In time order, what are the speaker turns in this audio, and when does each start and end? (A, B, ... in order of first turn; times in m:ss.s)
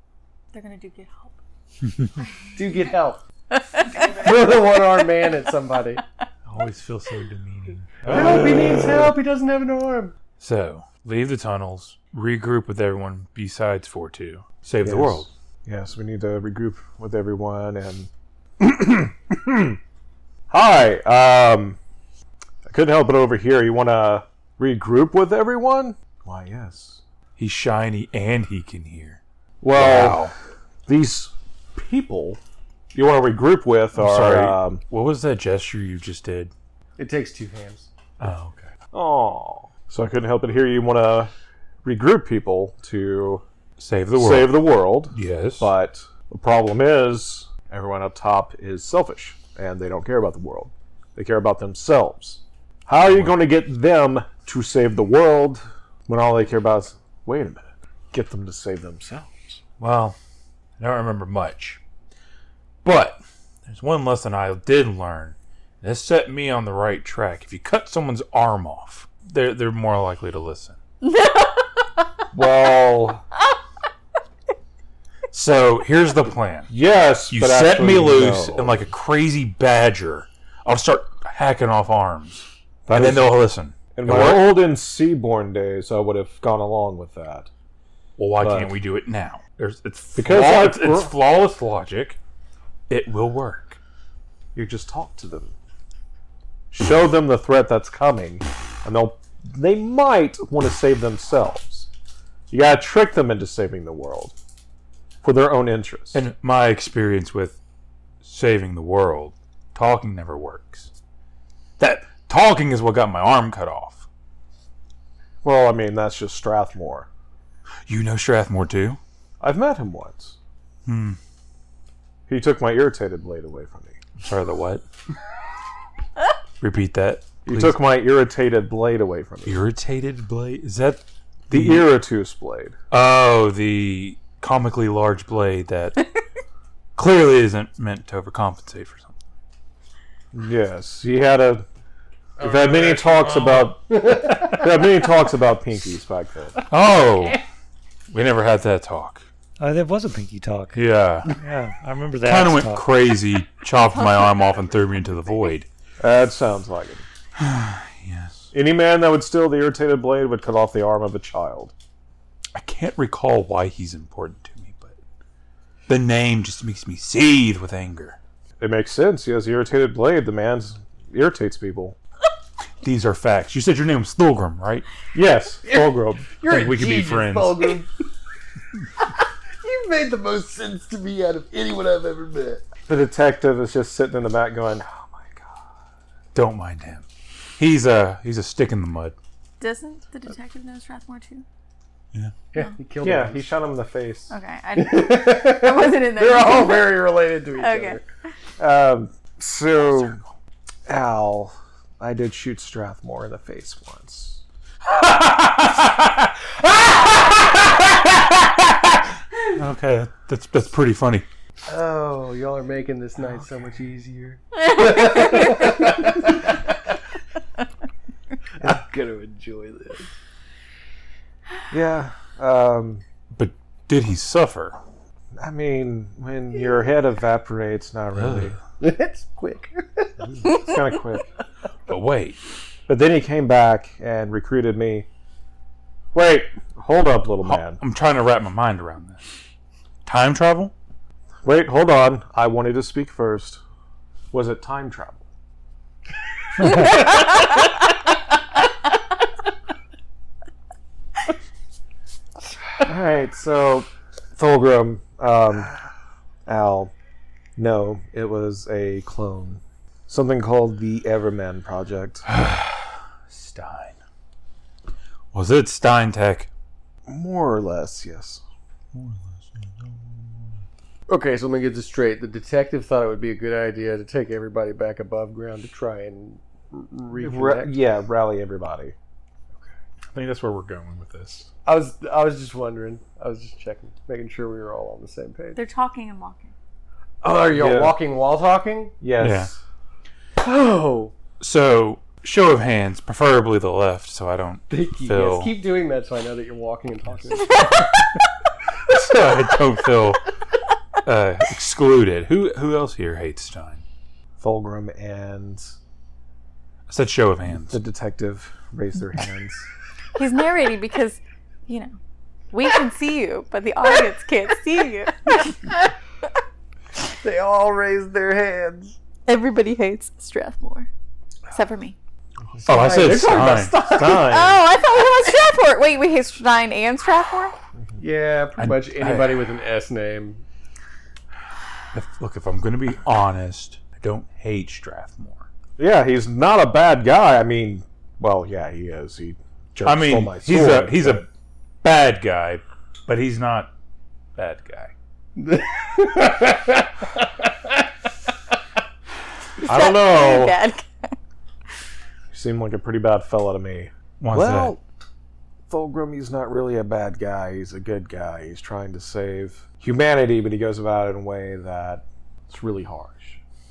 0:00.5-0:01.4 A
0:02.6-0:03.2 B
0:03.5-0:04.2 A
0:04.0-0:06.0 B
0:06.5-0:09.1 C
0:08.1-0:10.2 B
0:10.4-0:15.3 C
0:14.8-0:19.8 D
0:20.5-0:21.8 D
0:22.7-0:27.0 D
0:27.4-0:29.2 C
0:29.6-0:30.3 D
0:29.7-0:30.3 C
0:30.9-0:32.4 D
0:32.9-0:34.8 D
0:34.0-0:36.5 C
0:37.0-0:37.9 B
0:38.2-0:38.7 C
0:38.9-0:41.3 D
0:41.8-0:43.4 D
0:43.8-0:44.6 C
0:44.2-0:59.6 D
0:45.1-0:45.7 C
0:53.0-0:53.4 C
0:59.8-1:00.2 C
1:00.8-1:01.8 C
1:02.8-1:10.8 C
1:11.0-1:12.0 A
1:12.3-1:13.2 D
1:15.3-1:16.7 C
1:16.7-1:18.9 D
1:17.3-1:24.6 C
1:22.9-1:23.4 D
1:23.9-1:27.5 D
1:28.2-1:32.2 C
1:28.4-1:28.8 D
1:30.2-1:31.2 D
1:32.9-1:33.8 C
1:34.6-1:35.5 D
1:36.7-1:41.9 D
1:42.5-1:44.4 D
1:45.2-1:46.2 D
1:46.1-1:47.6 C
1:48.2-1:50.9 C
1:51.8-1:54.0 C
1:55.4-1:57.1 D
1:57.9-1:59.0 C
1:59.4-2:00.4 D
2:00.8-2:01.2 C
2:02.3-2:04.0 D
2:04.2-2:04.8 C
2:06.6-2:07.8 C
2:07.4-2:09.6 D
2:09.5-2:11.9 C
2:11.5-2:12.8 D
2:12.9-2:16.1 C
2:17.0-2:19.2 C
2:20.3-2:21.7 D
2:22.4-2:24.8 B
2:22.4-2:26.6 D
2:26.7-2:27.4 C
2:28.1-2:29.3 C
2:29.6-2:32.9 E
2:30.7-2:31.3 C
2:32.2-2:35.7 C
2:33.8-2:35.5 A
2:36.0-2:37.1 D
2:37.4-2:38.5 C
2:38.5-2:41.7 D
2:42.6-2:45.0 C
2:45.9-2:48.2 C
2:48.6-2:52.0 D
2:52.8-2:54.9 C
2:55.1-2:56.3 D
2:55.7-2:57.9 B
2:56.4-2:57.8 C
2:59.0-3:02.7 B
3:02.9-3:05.7 D
3:06.3-3:07.0 C
3:07.6-3:09.2 C
3:09.6-3:11.4 A
3:12.5-3:13.5 B
3:13.0-3:14.3 D
3:14.3-3:17.0 A
3:14.8-3:18.0 B
3:17.6-3:18.0 A
3:18.6-3:20.2 D
3:20.9-3:24.4 D
3:24.9-3:26.3 C
3:29.4-3:31.3 C
3:31.7-3:36.7 B
3:34.8-3:35.5 A
3:38.6-3:40.1 B
3:41.7-3:43.0 D
3:43.4-3:44.8 C
3:45.4-3:48.6 D
3:48.2-3:48.6 C
3:48.8-3:50.2 B
3:50.4-3:51.3 D
3:51.9-3:52.4 C
3:52.9-3:55.1 D
3:56.1-3:57.8 D
3:57.4-3:59.2 C
4:00.1-4:00.7 C
4:01.4-4:03.6 D
4:04.3-4:05.2 D
4:12.8-4:15.8 D
4:16.5-4:16.9 D
4:17.6-4:22.3 D
4:22.3-4:24.0 C
4:25.3-4:26.5 C
4:27.1-4:28.4 D
4:28.9-4:30.5 C
4:31.1-4:37.8 B
4:37.1-4:39.0 D
4:40.1-4:41.5 C
4:41.7-4:45.6 B
4:45.6-4:46.5 A
4:47.2-4:49.0 B
4:47.5-4:48.0 D
4:49.0-4:49.6 D
4:49.2-4:49.5 C
4:50.4-4:51.1 B
4:51.4-4:55.5 C
4:54.7-4:57.9 B
4:57.6-4:57.9 C
4:58.9-5:00.3 C
5:01.0-5:03.8 C
5:04.4-5:05.7 D
5:06.9-5:07.8 C
5:07.5-5:09.7 D
5:10.2-5:12.0 A
5:12.5-5:15.7 A
5:17.2-5:19.0 B
5:19.3-5:20.9 A
5:21.5-5:22.0 A
5:22.6-5:24.4 B
5:22.7-5:23.8 C
5:22.8-5:23.2 D
5:23.9-5:24.6 D
5:24.1-5:27.6 A
5:28.0-5:30.4 B
5:28.6-5:29.4 C
5:31.9-5:35.5 C
5:35.8-5:41.2 D
5:39.8-5:41.3 C
5:41.8-5:43.7 C
5:44.4-5:44.9 C
5:45.4-5:47.9 B
5:49.6-5:50.6 D
5:49.6-5:51.2 A
5:52.3-5:54.8 D
5:54.2-5:54.8 C
5:55.7-6:03.4 D